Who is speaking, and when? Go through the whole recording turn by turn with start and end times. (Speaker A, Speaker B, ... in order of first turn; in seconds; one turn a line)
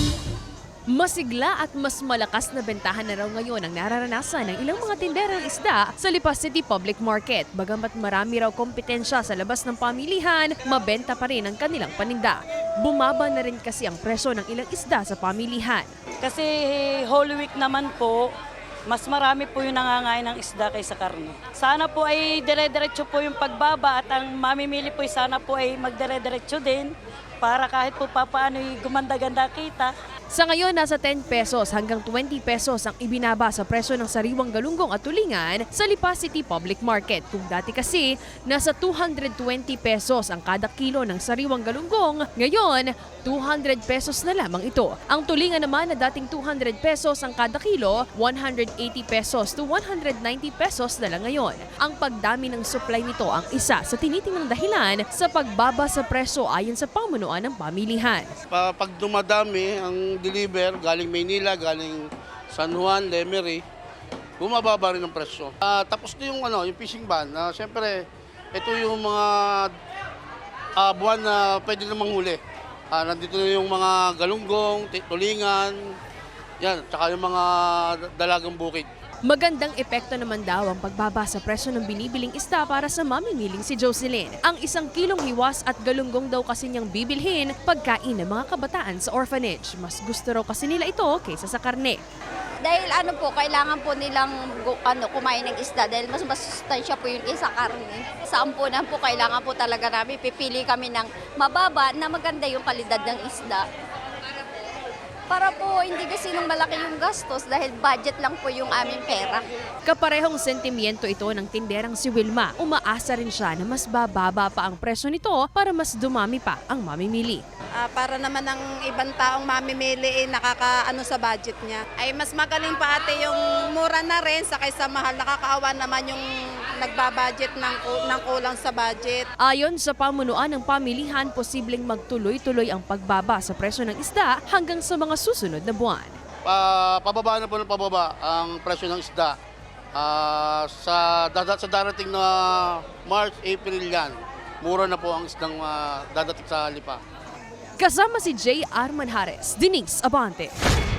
Speaker A: 0.9-15.9
Speaker B: 16.2-18.3
Speaker B: 18.9-29.9
Speaker A: 30.3-58.3
Speaker C: 58.5-63.6
Speaker C: 64.4-69.7
Speaker C: 70.8-72.4
Speaker C: 72.9-75.8
Speaker C: 76.6-78.9
Speaker A: 79.2-92.0
Speaker D: 92.6-103.6
Speaker D: 105.3-109.5
Speaker A: 109.8-117.4
Speaker E: 117.8-126.2
Speaker E: 126.8-129.2
Speaker A: 129.4-136.2
Speaker C: 136.4-139.3
Speaker C: 139.9-147.0
Speaker A: 147.8-150.5